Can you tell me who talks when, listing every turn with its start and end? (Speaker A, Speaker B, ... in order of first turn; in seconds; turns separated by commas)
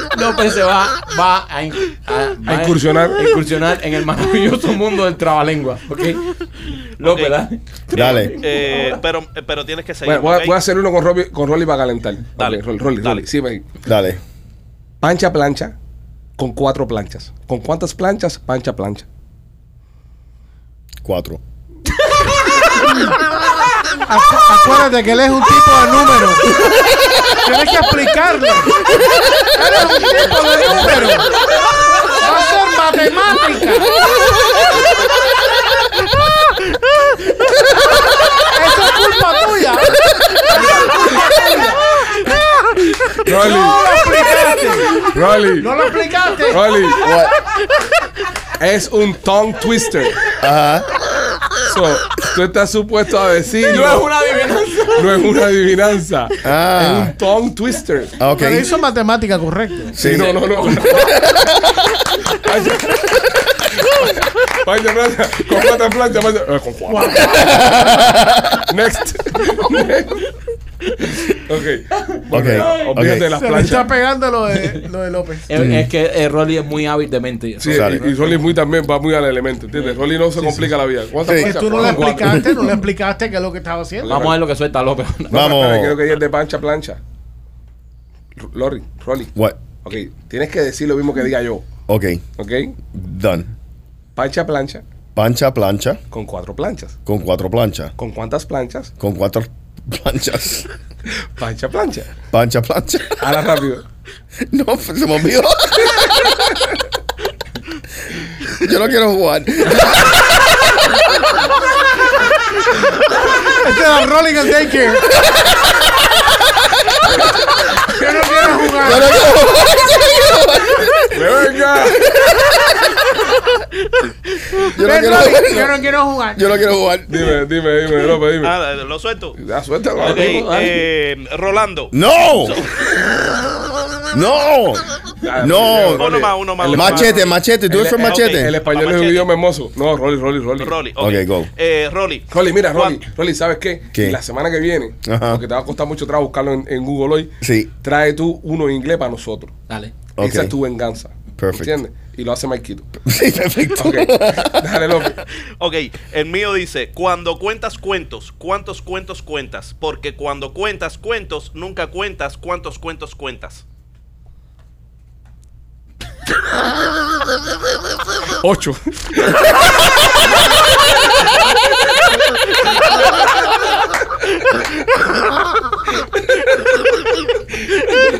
Speaker A: 0.1-9.0, Speaker B: 2.5-3.3, Speaker C: 7.0-7.3, Speaker D: 7.9-8.3, Speaker C: 7.9-10.6, Speaker B: 10.1-13.7, Speaker C: 12.4-13.2, Speaker D: 13.9-14.2, Speaker B: 15.0-15.8, Speaker B: 16.4-19.1, Speaker D: 21.0-21.4, Speaker E: 24.1-26.6, Speaker E: 27.4-28.8, Speaker E: 29.5-31.3, Speaker E: 32.1-34.0, Speaker E: 38.4-42.4, Speaker B: 43.2-43.8, Speaker E: 43.3-45.1, Speaker B: 45.0-45.7, Speaker E: 45.6-46.9, Speaker B: 46.5-47.1, Speaker D: 47.0-47.3, Speaker B: 48.6-50.2, Speaker D: 50.4-50.9, Speaker B: 51.6-54.1, Speaker A: 53.6-55.3, Speaker B: 55.0-58.2, Speaker D: 56.4-57.1, Speaker D: 58.2-58.7, Speaker E: 58.3-60.0, Speaker B: 60.0-61.2, Speaker D: 60.0-61.9, Speaker A: 60.2-61.1, Speaker B: 62.3-63.3, Speaker B: 64.0-67.8, Speaker E: 66.9-68.0, Speaker D: 67.4-68.7, Speaker B: 68.6-70.3, Speaker B: 71.5-73.9, Speaker A: 72.0-73.0, Speaker D: 72.3-73.3, Speaker E: 73.3-75.5, Speaker A: 75.5-78.2, Speaker D: 75.5-75.9, Speaker B: 77.6-82.3, Speaker D: 77.7-78.0, Speaker D: 81.2-81.6, Speaker E: 81.2-84.2, Speaker A: 81.7-82.4, Speaker B: 84.0-84.4, Speaker A: 84.0-85.6, Speaker D: 85.3-86.0, Speaker B: 85.3-87.0, Speaker B: 88.4-91.7, Speaker D: 91.9-92.2, Speaker B: 92.4-92.8, Speaker D: 92.9-93.5, Speaker B: 94.2-94.8, Speaker D: 95.2-96.0, Speaker B: 96.1-97.0, Speaker D: 97.1-97.9, Speaker B: 98.0-98.9, Speaker D: 99.0-100.7, Speaker B: 101.2-102.1, Speaker D: 102.3-103.3, Speaker B: 103.2-103.8, Speaker D: 104.5-106.6, Speaker D: 108.4-110.5, Speaker E: 113.5-115.1, Speaker E: 117.9-119.2, Speaker D: 118.8-121.2, Speaker B: 121.1-122.1, Speaker D: 124.6-125.8, Speaker E: 124.8-126.5, Speaker D: 126.3-127.4, Speaker B: 127.1-128.5, Speaker C: 128.4-129.4, Speaker B: 129.4-130.4, Speaker A: 130.0-130.8, Speaker C: 130.0-133.0, Speaker D: 131.9-132.6, Speaker D: 134.1-138.5, Speaker B: 135.2-140.8, Speaker C: 135.9-137.3, Speaker C: 138.0-139.3, Speaker C: 140.6-143.0, Speaker D: 141.0-141.5, Speaker B: 142.3-149.5, Speaker D: 145.0-145.4, Speaker D: 147.4-147.7, Speaker A: 149.7-149.9, Speaker B: 150.2-152.9, Speaker D: 150.2-150.5, Speaker D: 151.4-151.7, Speaker D: 153.1-154.7, Speaker B: 153.8-155.2, Speaker C: 155.6-163.6, Speaker B: 168.4-169.4